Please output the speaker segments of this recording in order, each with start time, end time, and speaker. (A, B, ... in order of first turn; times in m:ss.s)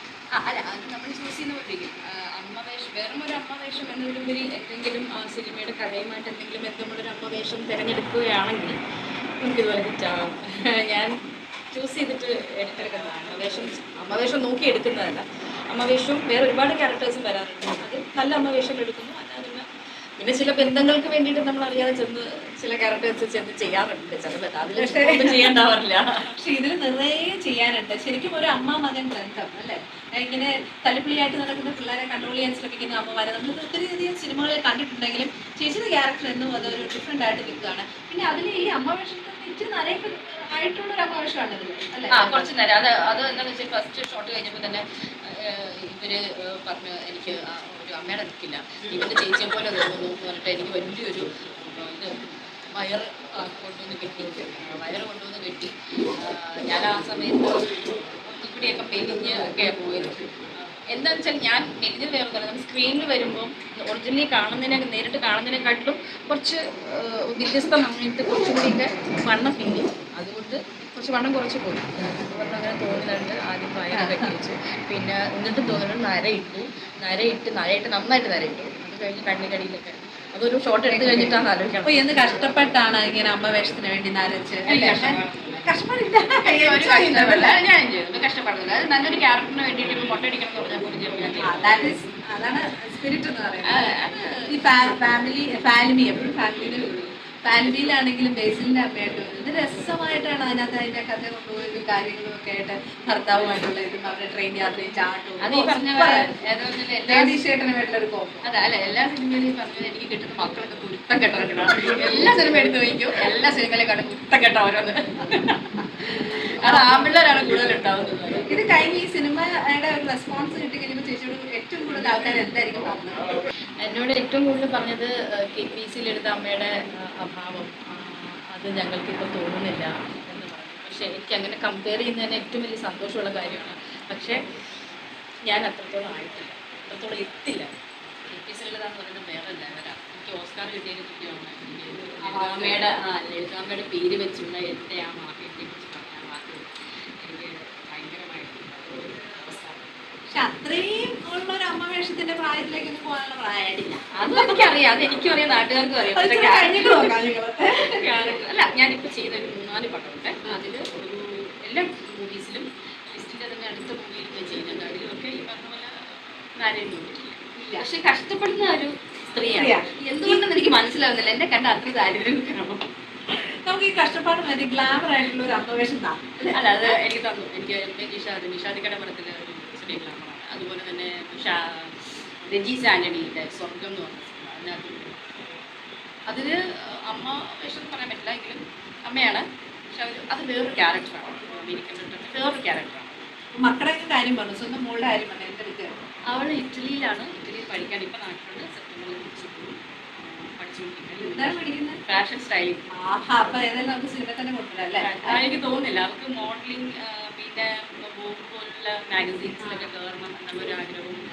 0:00.3-0:08.8 A
0:09.4-0:11.1 A
0:11.7-0:19.6 A
0:20.2-0:26.3 A
0:24.8-0:25.5 B
0:26.4-0:42.5 B
0:42.1-0:52.1 A
0:52.7-1:22.0 A
1:13.9-1:14.3 B
1:20.9-1:27.6 B
1:24.7-1:25.6 A
1:26.4-1:32.0 A
1:31.4-1:34.0 B
1:33.6-1:34.5 A
1:34.5-1:46.3 B
1:45.4-1:47.4 A
1:47.1-1:48.5 B
1:48.4-1:58.5 A
1:56.6-1:57.1 B
1:58.5-2:03.3 B
2:03.8-2:14.4 A
2:15.5-2:17.7 A
2:18.3-2:26.6 A
2:22.2-2:22.8 B
2:27.2-2:29.9 A
2:30.3-2:34.7 B
2:34.2-2:37.1 A
2:36.1-2:38.0 B
2:38.0-2:52.9 A
2:47.6-2:47.8 B
2:49.5-2:50.4 B
2:53.4-2:56.9 B
2:56.5-3:05.2 A
3:06.3-3:13.1 A
3:13.6-3:15.9 B
3:16.3-3:22.8 A
3:21.2-3:22.0 B
3:23.0-3:25.4 B
3:25.0-3:31.2 A
3:29.6-3:29.9 B